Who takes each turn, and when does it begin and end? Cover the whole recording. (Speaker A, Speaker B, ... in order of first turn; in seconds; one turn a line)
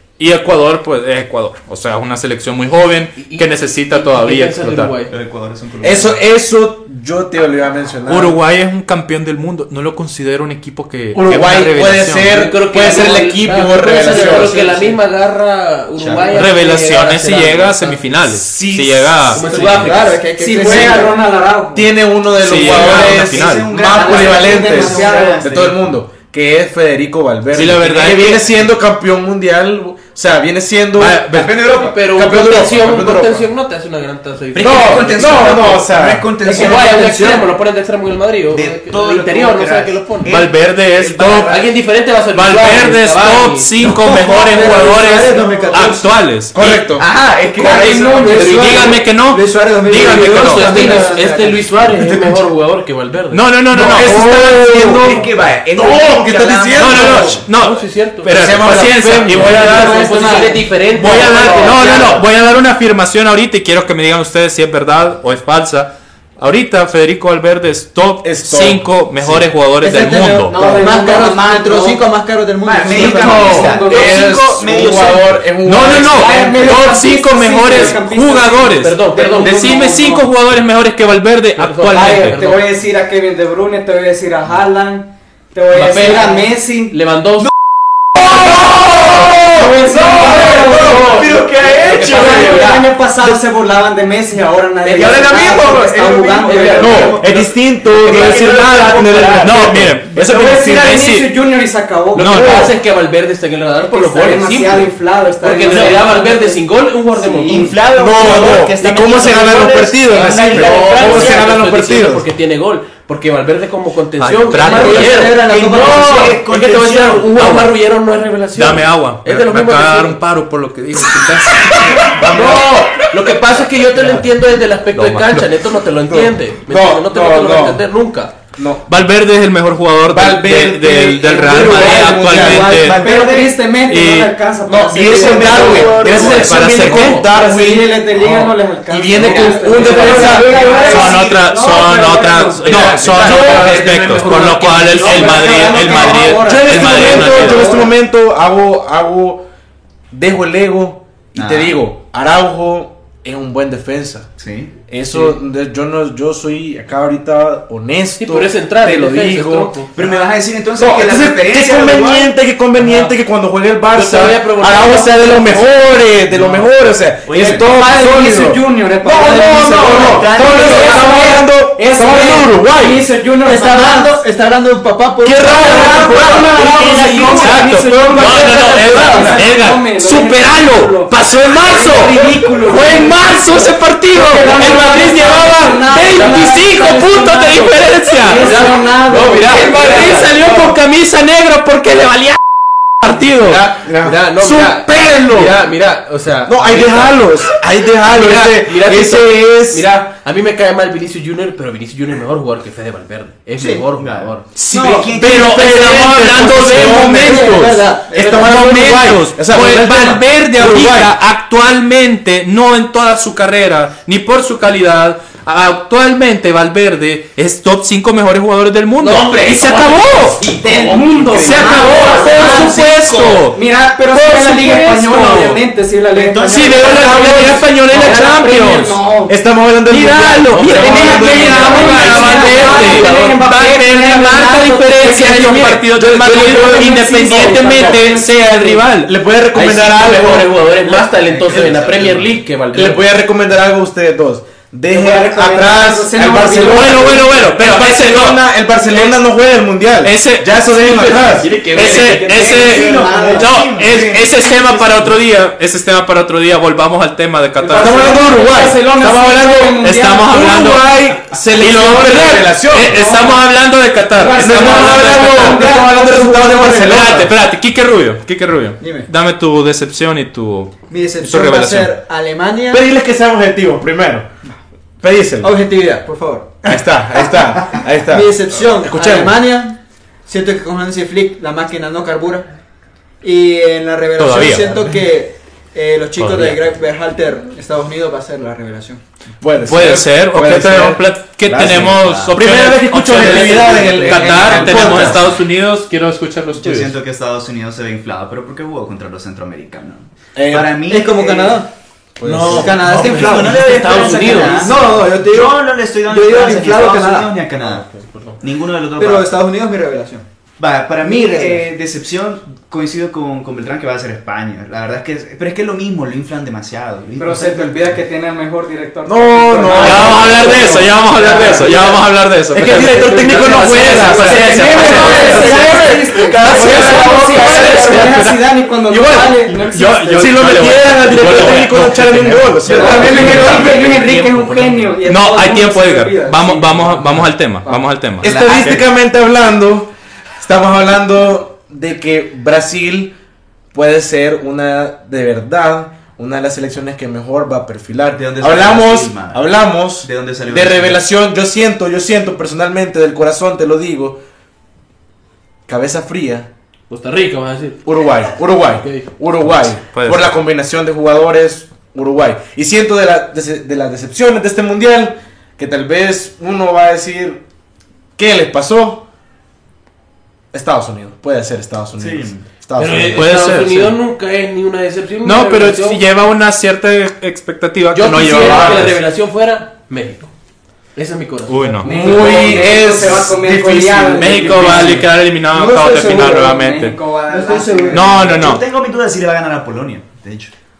Speaker A: 0.2-4.9
Speaker B: 3.2-5.1
Speaker C: 5.1-6.2
Speaker D: 5.8-8.4
Speaker A: 8.1-12.4
Speaker D: 11.1-14.6
Speaker B: 12.2-18.1
Speaker E: 14.1-14.7
Speaker C: 16.0-16.4
Speaker A: 16.3-19.7
Speaker D: 18.3-19.6
Speaker B: 19.3-20.9
Speaker E: 19.4-21.1
Speaker F: 20.4-21.9
Speaker D: 20.6-21.0
Speaker D: 21.7-31.3
Speaker A: 22.4-23.7
Speaker C: 22.6-25.9
Speaker F: 23.7-25.6
Speaker A: 27.5-28.7
Speaker A: 30.9-31.6
Speaker C: 31.3-32.0
Speaker B: 31.5-35.6
Speaker D: 32.0-33.5
Speaker C: 34.5-37.3
Speaker D: 34.6-36.6
Speaker B: 36.4-40.3
Speaker E: 36.5-37.4
Speaker C: 38.5-41.6
Speaker A: 40.2-41.6
Speaker B: 41.4-43.8
Speaker A: 42.3-46.8
Speaker E: 43.9-46.0
Speaker C: 44.4-44.7
Speaker C: 45.3-45.8
Speaker D: 46.5-47.0
Speaker C: 46.9-49.0
Speaker E: 47.6-51.6
Speaker D: 47.7-48.4
Speaker A: 48.3-51.0
Speaker B: 49.9-53.5
Speaker A: 53.3-54.9
Speaker D: 53.7-57.4
Speaker E: 53.8-55.2
Speaker C: 54.9-57.5
Speaker A: 56.8-60.4
Speaker B: 57.5-58.4
Speaker D: 58.3-60.4
Speaker B: 59.2-62.2
Speaker E: 59.5-62.0
Speaker A: 60.9-70.5
Speaker D: 61.0-62.0
Speaker D: 68.2-69.5
Speaker E: 69.8-73.8
Speaker F: 70.5-72.0
Speaker C: 72.6-75.5
Speaker F: 72.9-74.2
Speaker D: 73.1-76.7
Speaker A: 74.1-74.5
Speaker A: 75.6-82.4
Speaker F: 76.1-80.3
Speaker B: 78.8-79.9
Speaker B: 81.5-82.7
Speaker F: 81.9-87.0
Speaker B: 85.7-87.5
Speaker D: 88.3-92.8
Speaker F: 89.6-91.1
Speaker B: 89.9-92.7
Speaker C: 90.0-92.7
Speaker F: 91.9-97.2
Speaker C: 94.8-99.9
Speaker D: 95.0-101.0
Speaker A: 98.0-101.3
Speaker F: 100.2-102.7
Speaker A: 102.1-102.7
Speaker B: 102.2-107.8
Speaker F: 103.8-107.8
Speaker C: 107.5-111.6
Speaker D: 107.9-112.2
Speaker B: 110.4-120.2
Speaker A: 114.2-115.3
Speaker E: 114.6-116.4
Speaker C: 114.9-117.5
Speaker A: 117.3-117.7
Speaker A: 118.5-122.1
Speaker D: 122.0-123.0
Speaker B: 122.2-128.3
Speaker D: 123.9-124.3
Speaker A: 124.9-125.5
Speaker D: 126.0-127.8
Speaker D: 128.6-128.9
Speaker A: 128.9-133.0
Speaker D: 130.1-132.8
Speaker F: 131.7-136.4
Speaker C: 132.5-133.6
Speaker A: 133.8-134.3
Speaker C: 134.7-136.5
Speaker D: 134.7-141.1
Speaker B: 135.4-137.3
Speaker A: 136.0-137.2
Speaker F: 137.1-143.0
Speaker B: 139.1-140.7
Speaker C: 140.2-141.4
Speaker A: 140.9-147.7
Speaker D: 142.7-143.9
Speaker B: 142.7-146.0
Speaker F: 144.7-147.9
Speaker D: 146.4-149.4
Speaker D: 150.1-154.3
Speaker C: 151.3-151.8
Speaker C: 154.4-154.7
Speaker D: 154.8-160.2
Speaker B: 158.2-159.9
Speaker C: 159.9-162.3
Speaker D: 160.8-173.0
Speaker B: 163.9-165.7
Speaker C: 167.2-167.7
Speaker F: 167.6-174.2
Speaker C: 169.7-171.3
Speaker E: 173.4-177.6
Speaker D: 175.2-176.4
Speaker F: 175.5-190.4
Speaker A: 177.1-188.6
Speaker B: 178.2-179.4
Speaker B: 188.2-190.7
Speaker A: 189.5-192.4
Speaker A: 193.0-193.6
Speaker B: 193.1-197.2
Speaker D: 193.8-195.5
Speaker A: 194.4-195.4
Speaker D: 196.4-199.9
Speaker B: 198.1-204.6
Speaker E: 203.6-203.9
Speaker C: 204.0-206.2
Speaker A: 204.6-220.4
Speaker E: 204.7-208.4
Speaker F: 204.7-205.0
Speaker D: 205.1-211.1
Speaker B: 219.0-222.8
Speaker F: 220.6-222.9
Speaker C: 220.8-223.2
Speaker A: 221.3-223.6
Speaker F: 223.5-229.3
Speaker A: 224.1-225.6
Speaker C: 226.1-227.3
Speaker A: 226.4-229.0
Speaker D: 226.9-227.6
Speaker B: 227.9-228.4
Speaker D: 229.3-232.6
Speaker A: 229.9-239.1
Speaker B: 230.5-233.4
Speaker F: 230.8-235.3
Speaker B: 234.6-235.8
Speaker D: 235.4-238.0
Speaker F: 236.6-238.8
Speaker B: 237.7-238.1
Speaker D: 239.0-240.6
Speaker B: 239.5-243.0
Speaker C: 241.0-242.3
Speaker D: 241.5-241.9
Speaker D: 242.7-251.6
Speaker F: 244.9-247.2
Speaker A: 246.6-248.4
Speaker A: 250.0-258.3
Speaker B: 250.8-252.4
Speaker F: 251.7-253.5
Speaker C: 252.4-254.1
Speaker D: 252.9-253.2
Speaker D: 253.8-255.1
Speaker F: 257.6-260.4
Speaker D: 257.8-258.8
Speaker A: 258.9-261.0
Speaker D: 260.2-263.1
Speaker A: 261.5-265.8
Speaker F: 262.8-263.4
Speaker F: 264.2-266.2
Speaker D: 264.3-267.3
Speaker A: 266.3-271.9
Speaker E: 268.8-269.1
Speaker E: 270.9-272.9
Speaker D: 272.7-274.2
Speaker D: 275.0-275.5
Speaker E: 275.4-276.8
Speaker D: 276.6-279.4
Speaker E: 278.1-282.5
Speaker E: 283.2-289.0
Speaker A: 284.2-284.9
Speaker A: 286.2-286.6
Speaker D: 289.4-295.3
Speaker A: 289.6-296.9
Speaker C: 291.5-292.4
Speaker B: 293.1-294.9
Speaker C: 294.4-295.1
Speaker C: 296.6-301.6
Speaker D: 300.4-300.8
Speaker E: 300.9-301.7
Speaker D: 302.2-303.1
Speaker B: 302.2-304.8
Speaker E: 302.4-307.4
Speaker C: 302.5-309.3
Speaker B: 307.7-308.4
Speaker E: 309.0-310.2
Speaker C: 310.6-317.9
Speaker E: 311.0-311.6
Speaker F: 317.1-321.8
Speaker D: 319.0-321.8
Speaker A: 319.8-333.6
Speaker B: 321.4-321.7
Speaker B: 322.5-328.0
Speaker D: 322.5-328.2
Speaker F: 324.0-330.4
Speaker E: 325.4-326.0
Speaker D: 330.1-334.1
Speaker F: 332.7-337.0
Speaker B: 332.8-335.0
Speaker A: 335.0-338.8
Speaker D: 338.2-343.1
Speaker C: 338.2-338.8
Speaker D: 343.7-354.2
Speaker C: 348.1-351.0
Speaker D: 355.7-356.5
Speaker B: 356.9-357.9
Speaker D: 357.8-367.4
Speaker B: 358.8-359.1
Speaker A: 359.9-360.4
Speaker D: 368.1-369.1
Speaker D: 370.5-373.2
Speaker C: 372.0-372.5
Speaker B: 372.8-376.0
Speaker A: 372.9-374.0
Speaker A: 375.2-379.0
Speaker B: 377.9-380.3
Speaker D: 378.4-378.8
Speaker B: 380.9-383.3
Speaker A: 381.5-382.6
Speaker F: 381.8-388.1
Speaker D: 382.5-385.0
Speaker A: 384.1-387.0
Speaker B: 384.5-385.0
Speaker C: 387.3-390.5
Speaker E: 387.3-387.9
Speaker A: 387.9-388.6